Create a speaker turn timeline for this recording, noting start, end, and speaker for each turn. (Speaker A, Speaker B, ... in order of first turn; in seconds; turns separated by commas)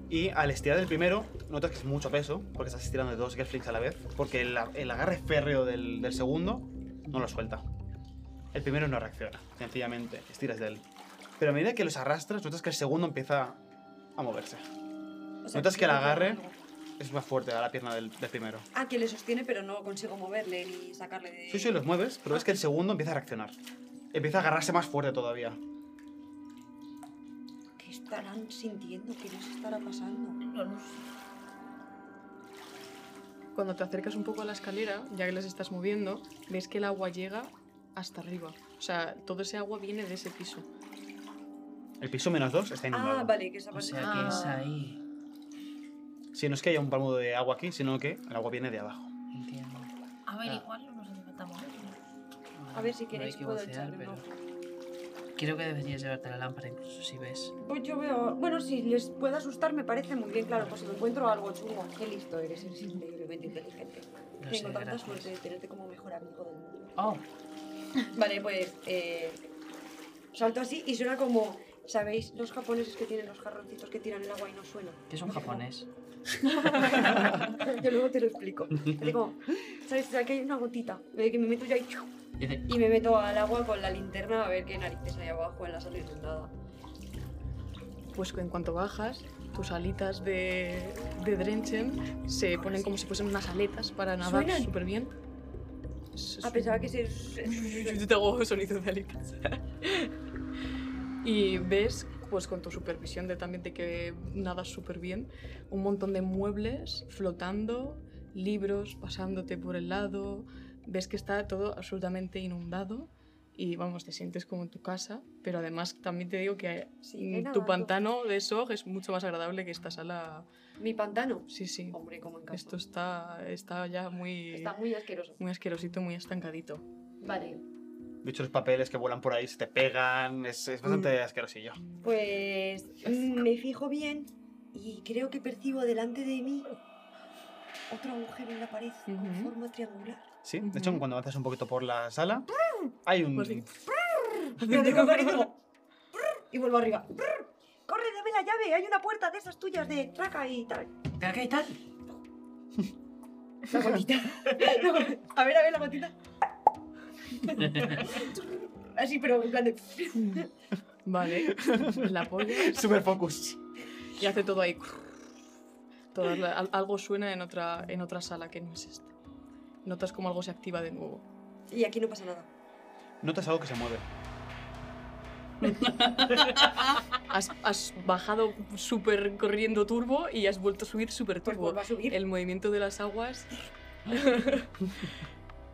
Speaker A: 0.1-7.6, Speaker A: 8.5-10.8, Speaker A: 11.4-13.6, Speaker A: 14.2-14.6, Speaker B: 15.4-16.6, Speaker A: 15.5-16.4, Speaker A: 17.0-18.7, Speaker B: 18.7-22.5, Speaker A: 21.5-23.6, Speaker A: 24.1-25.6, Speaker B: 27.8-30.4, Speaker C: 30.4-31.1, Speaker D: 33.5-40.7, Speaker A: 42.0-43.3, Speaker B: 42.9-44.6, Speaker E: 43.7-45.0, Speaker C: 44.0-44.6, Speaker A: 46.3-49.1, Speaker E: 49.3-49.9, Speaker C: 50.3-52.0, Speaker E: 52.5-54.2, Speaker B: 52.7-54.4, Speaker E: 55.4-57.6, Speaker B: 57.6-67.0, Speaker E: 64.4-65.3, Speaker E: 67.0-67.2, Speaker B: 68.1-69.4, Speaker B: 70.3-75.6, Speaker E: 75.1-75.9, Speaker B: 76.6-82.1, Speaker E: 82.4-82.7, Speaker B: 82.7-86.5, Speaker D: 88.1-95.1, Speaker B: 92.6-92.9, Speaker B: 94.2-94.7, Speaker D: 96.2-100.1, Speaker B: 96.4-98.0, Speaker D: 101.2-120.5, Speaker B: 117.0-118.0, Speaker B: 120.8-122.8, Speaker D: 121.5-122.0, Speaker D: 122.5-124.8, Speaker B: 124.5-125.4, Speaker D: 125.4-126.8, Speaker B: 127.2-127.7, Speaker A: 128.2-131.8, Speaker B: 132.0-136.8, Speaker B: 137.9-140.3, Speaker D: 139.1-139.5, Speaker A: 140.4-142.5, Speaker D: 140.6-141.0, Speaker A: 143.1-143.7, Speaker D: 143.3-143.7, Speaker B: 144.1-145.5, Speaker D: 144.6-145.5, Speaker B: 146.2-150.9, Speaker E: 151.2-151.8, Speaker B: 153.7-156.2, Speaker B: 157.3-160.5, Speaker E: 157.6-158.1, Speaker D: 160.2-160.4, Speaker D: 161.1-162.8, Speaker A: 161.5-163.6, Speaker D: 164.2-165.3, Speaker D: 166.1-169.1, Speaker D: 169.8-171.2, Speaker B: 171.7-172.5, Speaker A: 173.2-174.1, Speaker E: 175.6-177.0, Speaker D: 177.3-185.1, Speaker B: 181.4-182.2